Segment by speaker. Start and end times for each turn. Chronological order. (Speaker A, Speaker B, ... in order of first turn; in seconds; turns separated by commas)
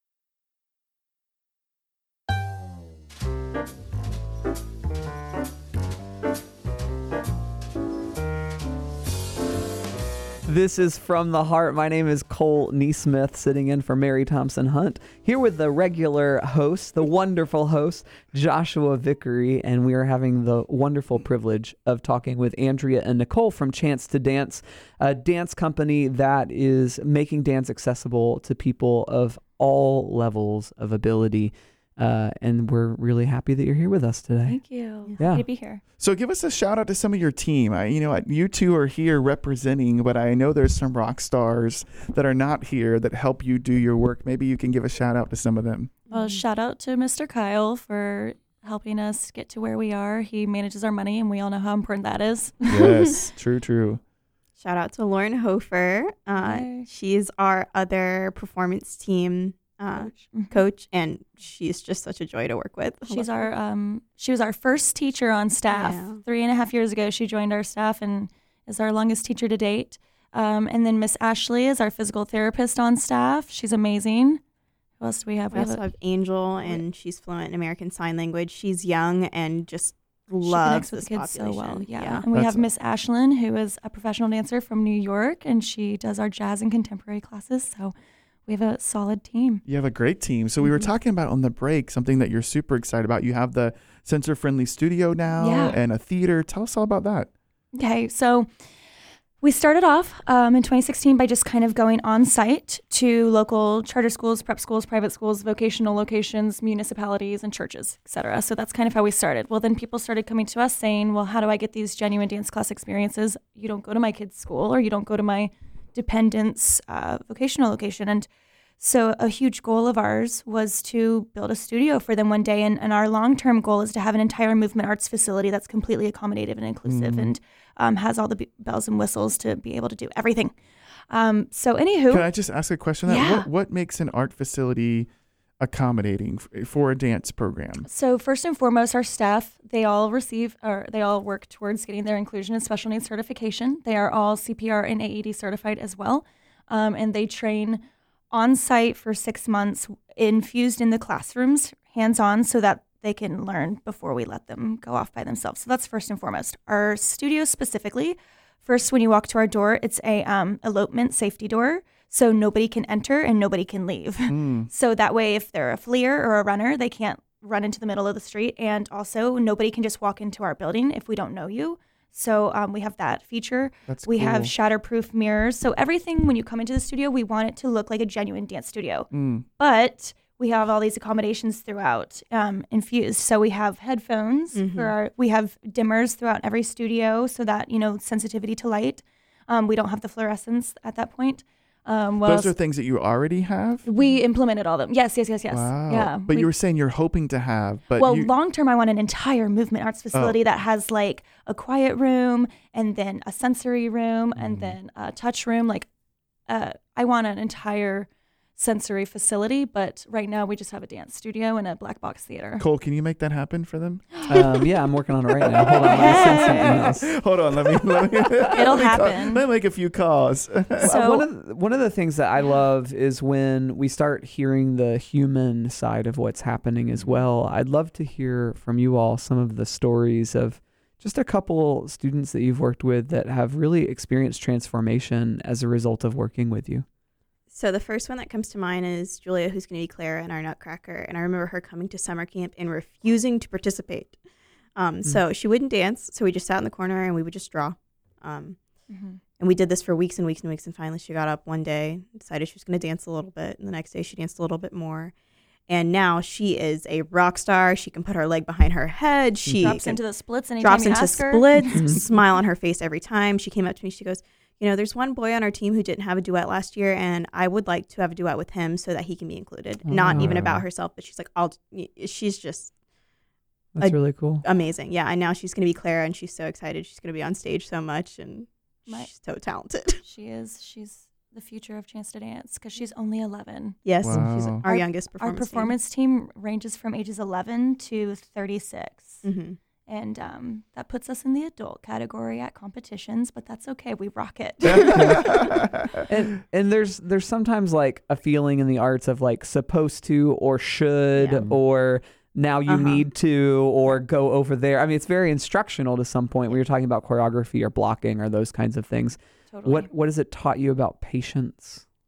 Speaker A: 10.4-34.6, Speaker B: 34.5-35.8, Speaker A: 35.2-35.5, Speaker C: 36.0-45.9, Speaker D: 46.1-46.4, Speaker B: 46.1-52.9, Speaker C: 52.7-54.0, Speaker D: 54.6-63.5, Speaker B: 56.4-56.9, Speaker B: 59.9-60.6, Speaker B: 63.1-74.4, Speaker D: 65.7-66.2, Speaker B: 75.0-75.8, Speaker D: 75.5-82.2, Speaker B: 80.4-87.9, Speaker C: 82.3-82.7, Speaker B: 88.5-89.6, Speaker C: 89.7-97.3, Speaker B: 95.4-95.8, Speaker B: 97.7-98.5, Speaker B: 99.4-118.3, Speaker B: 118.8-130.5, Speaker C: 126.9-127.3, Speaker B: 131.1-132.3, Speaker C: 132.1-135.1, Speaker B: 133.1-133.5, Speaker C: 135.6-137.9, Speaker B: 137.9-192.5, Speaker C: 164.3-164.7, Speaker C: 173.9-174.5, Speaker C: 179.1-179.4, Speaker D: 184.5-184.9, Speaker C: 192.2-193.8, Speaker B: 193.8-196.5, Speaker C: 195.5-198.3, Speaker B: 198.0-205.9, Speaker C: 200.1-200.4, Speaker C: 204.3-204.8, Speaker B: 206.5-212.6, Speaker C: 212.6-214.2, Speaker B: 214.2-214.7, Speaker A: 214.3-217.1, Speaker C: 215.5-220.9, Speaker B: 215.8-216.9, Speaker B: 218.5-219.4, Speaker B: 220.8-221.2, Speaker A: 220.8-236.8, Speaker C: 226.9-227.2, Speaker D: 237.5-244.2, Speaker D: 244.8-248.6, Speaker B: 248.9-249.2, Speaker D: 249.4-255.1, Speaker D: 255.7-260.0, Speaker B: 259.6-262.0, Speaker D: 260.6-272.7, Speaker A: 261.7-262.0, Speaker A: 269.8-270.4, Speaker C: 270.1-270.6, Speaker A: 273.8-274.4, Speaker D: 273.8-280.0, Speaker B: 280.0-283.8, Speaker D: 283.8-285.7, Speaker C: 284.0-284.6, Speaker B: 284.6-289.2, Speaker D: 289.2-289.6, Speaker B: 289.9-295.4, Speaker C: 294.6-296.1, Speaker A: 294.9-295.2, Speaker A: 296.1-311.8, Speaker D: 301.1-301.4, Speaker D: 302.7-303.1, Speaker B: 309.5-309.9